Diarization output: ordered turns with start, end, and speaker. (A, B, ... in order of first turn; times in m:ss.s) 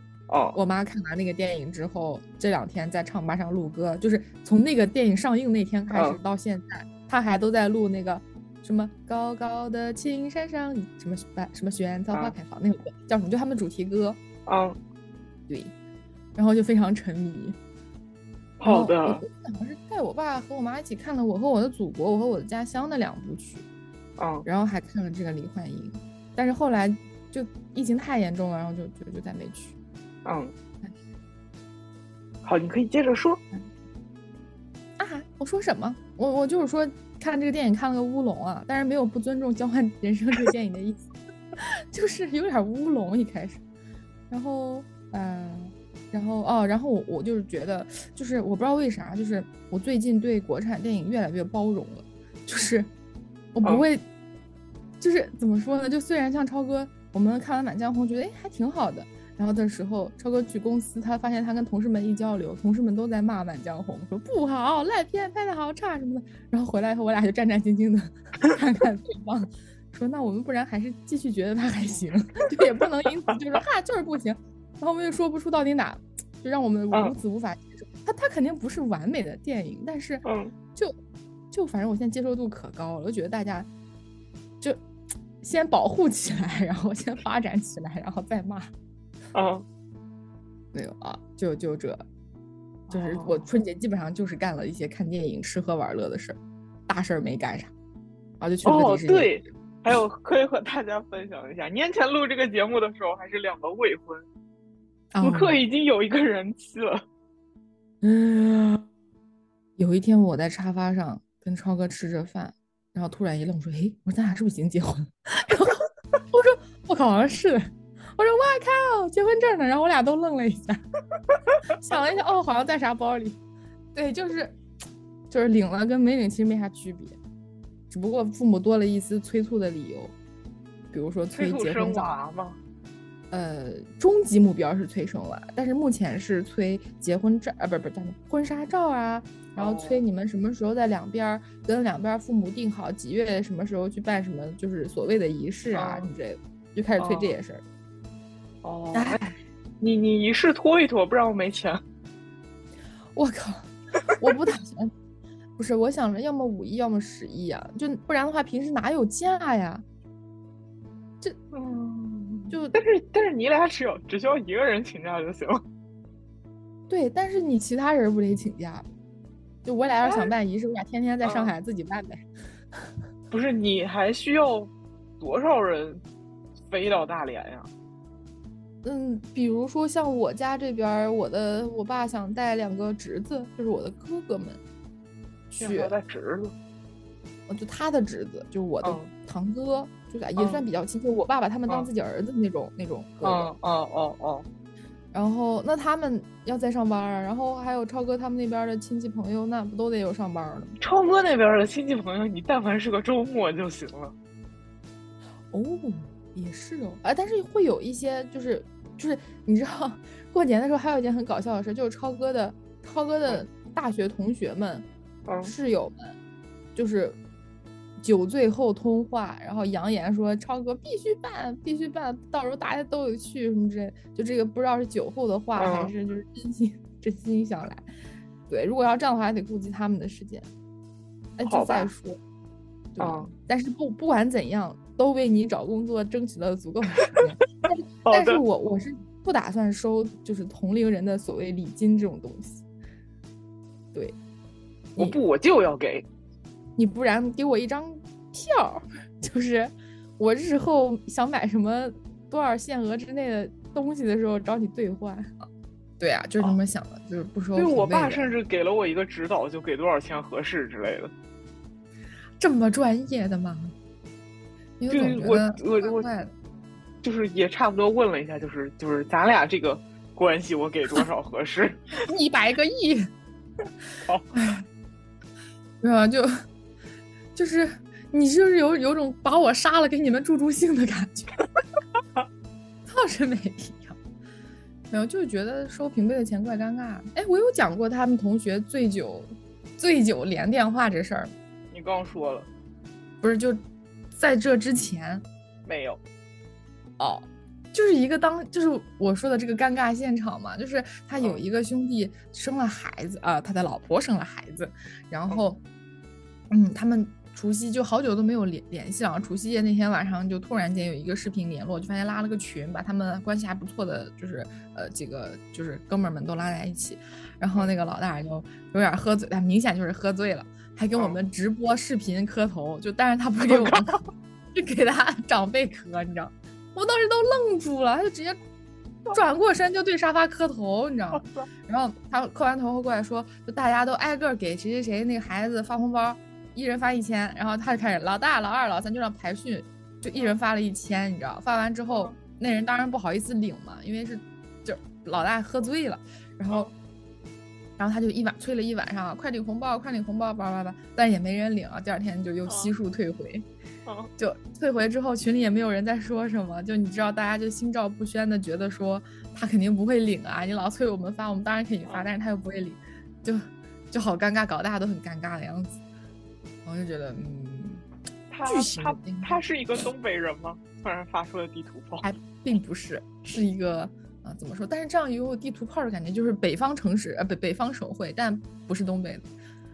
0:00.3-0:00.6 A
0:00.6-0:14.2 B
0:05.9-0:06.2 A
0:14.5-0:14.8 A
0:16.4-0:17.6 B
0:18.6-0:19.2 A
0:18.6-0:23.7 B
0:24.2-0:24.5 A
0:24.5-0:29.8 B
0:30.2-0:30.5 A
0:32.4-0:33.4 A
0:35.0-0:43.6 B
0:44.3-0:52.9 B
0:53.6-0:54.0 B
0:55.0-1:20.2 B
1:20.2-1:20.5 A
1:21.5-1:23.7 B
1:25.4-1:28.7 B
1:29.3-1:29.6 A
1:30.7-1:32.1 B
1:32.9-1:33.4 A
1:32.9-1:37.7 B
1:38.4-1:39.4 B
1:38.6-1:44.3 A
1:45.1-1:45.6 B
1:45.2-1:47.0 A
1:48.0-1:48.9 B
1:49.8-2:00.8 B
2:01.5-2:02.0 A
2:01.8-2:03.4 B
2:03.9-2:04.6 B
2:05.3-2:07.2 B
2:07.9-2:10.2 B
2:10.9-2:12.2 B
2:11.3-2:12.6 A
2:13.3-2:27.6 B
2:19.6-2:20.0 A
2:25.7-2:26.1 A
2:27.0-2:27.4 A
2:28.6-2:29.2 A
2:28.9-2:29.3 B
2:29.8-2:31.8 A
2:33.1-2:34.9 B
2:35.6-2:39.8 B
2:41.5-2:45.6 A
2:42.5-2:42.8 B
2:46.9-2:48.9 B
2:49.6-2:52.2 B
2:50.0-2:50.3 A
2:51.2-2:51.5 A
2:53.3-2:56.0 A
2:56.7-2:57.7 A
2:58.8-3:04.6 B
3:05.5-3:05.9 B
3:05.6-3:06.5 A
3:07.5-3:13.5 B
3:08.8-3:09.1 A
3:10.4-3:10.6 A
3:13.2-3:14.5 A
3:15.1-3:20.8 B
3:20.8-3:24.2 A
3:25.5-3:34.9 B
3:35.3-3:35.5 A
3:35.4-3:36.1 B
3:36.8-3:37.2 B
3:38.0-3:47.8 B
3:45.6-3:45.9 A
3:48.5-3:50.5 B
3:51.4-3:52.2 B
3:51.5-3:51.9 A
3:53.0-4:02.6 B
3:53.0-3:53.3 A
3:58.1-3:58.4 A
4:05.0-4:06.1 A
4:06.8-4:15.4 B
4:16.0-4:18.3 B
4:17.6-4:21.1 A
4:22.4-4:23.7 B
4:24.8-4:26.3 B
4:24.9-4:26.1 A
4:27.0-4:31.9 A
4:32.1-4:33.1 B
4:34.1-4:34.3 A
4:34.3-4:34.6 B
4:35.8-4:36.3 B
4:37.4-4:41.4 B
4:42.9-4:44.0 B
4:44.9-4:51.3 B
4:51.7-4:52.5 A
4:53.2-4:53.6 B
4:54.1-4:55.2 B
4:55.6-4:56.0 A
4:57.0-5:05.6 B
5:01.2-5:01.4 A
5:06.5-5:23.9 B
5:23.4-5:24.1 A
5:24.5-5:28.4 B
5:29.1-5:46.7 B
5:31.1-5:31.5 A
5:41.9-5:42.2 A
5:47.8-5:53.5 B
5:52.5-5:52.7 A
5:53.9-5:54.1 A
5:54.2-6:05.8 B
6:06.6-6:07.8 B
6:08.3-6:12.1 A
6:08.5-6:09.4 B
6:12.0-6:19.3 B